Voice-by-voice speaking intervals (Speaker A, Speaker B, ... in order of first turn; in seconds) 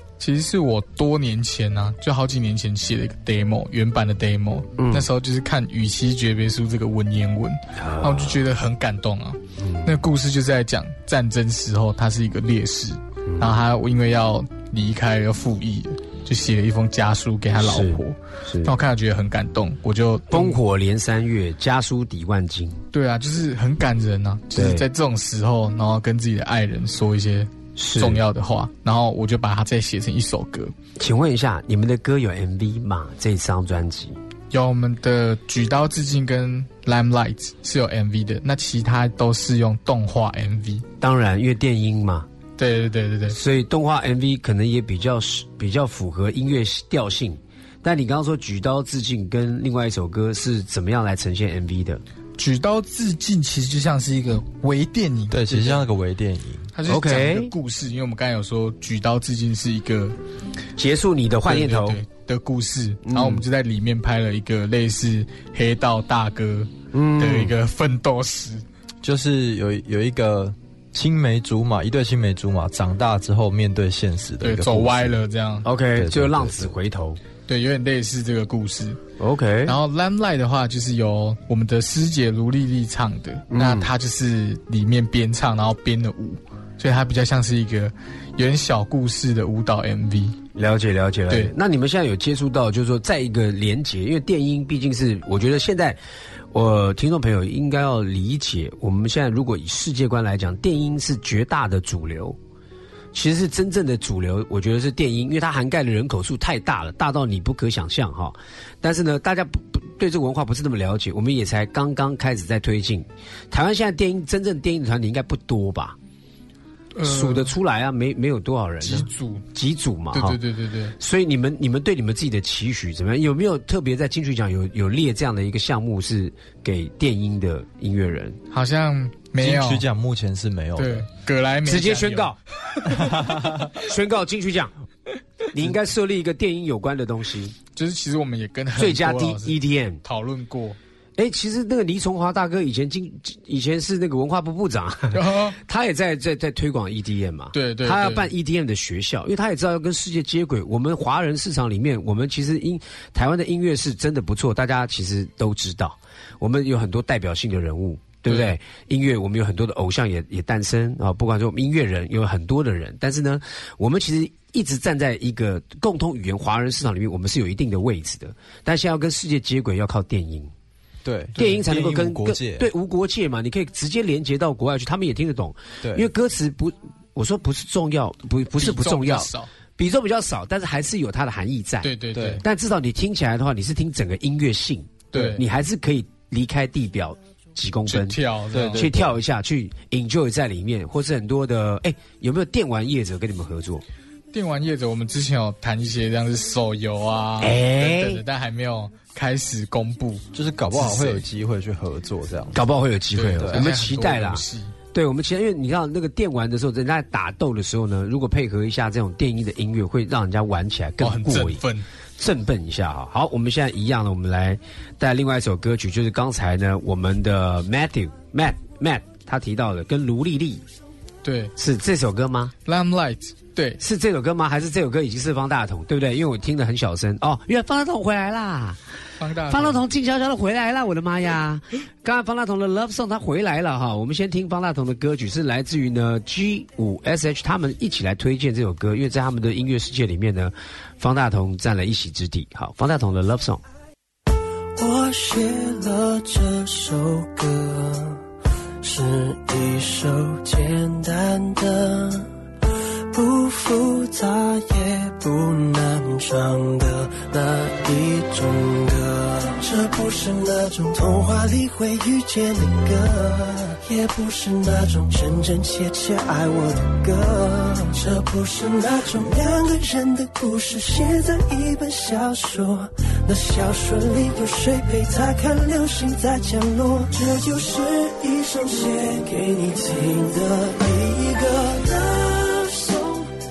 Speaker A: 0.2-20.6, 22.9-30.7, 34.5-40.9, 42.6-43.4, 52.4-55.9, 56.7-60.1, 61.4-68.6, 74.4-75.7, 77.5-79.0, 79.7-90.4, 116.9-117.5, 118.8-119.5, 120.1-120.9, 128.5-129.8, 130.8-133.4, 137.7-140.8, 145.1-145.6, 147.5-148.3, 158.2-158.5, 171.3-171.6, 178.6-179.5, 181.8-182.4, 185.1-185.4, 187.9-188.9, 194.3-200.2, 200.8-201.2, 203.1-204.7, 211.0-211.8, 221.2-221.5, 222.6-223.8, 229.2-229.8
Speaker B: 4.8-5.0, 7.8-8.4, 9.6-9.9, 13.3-13.5, 17.6-18.7, 20.3-22.8, 24.5-24.8, 27.8-28.2, 31.0-34.2, 41.0-42.3, 43.3-52.0, 56.9-57.5, 60.8-62.0, 63.0-63.4, 66.9-67.5, 75.6-77.2, 79.2-79.7, 83.5-83.9, 90.5-96.0, 96.5-102.4, 103.1-116.0, 117.0-120.4, 121.0-128.4, 131.6-132.4, 133.8-134.7, 135.5-137.6, 138.8-140.0, 141.2-170.5, 171.4-181.9, 182.4-188.2, 188.7-193.8, 197.4-198.2, 202.5-204.4, 204.9-211.6, 212.2-220.6, 221.6-222.5, 223.8-228.8, 229.5-243.6
Speaker C: 55.3-56.7, 69.0-75.2, 76.0-76.7, 129.4-131.1, 132.9-133.7, 171.0-172.7, 175.8-176.1, 182.1-182.4, 188.5-189.1, 200.3-202.6
Speaker D: 244.8-248.2, 248.8-252.3, 253.1-283.3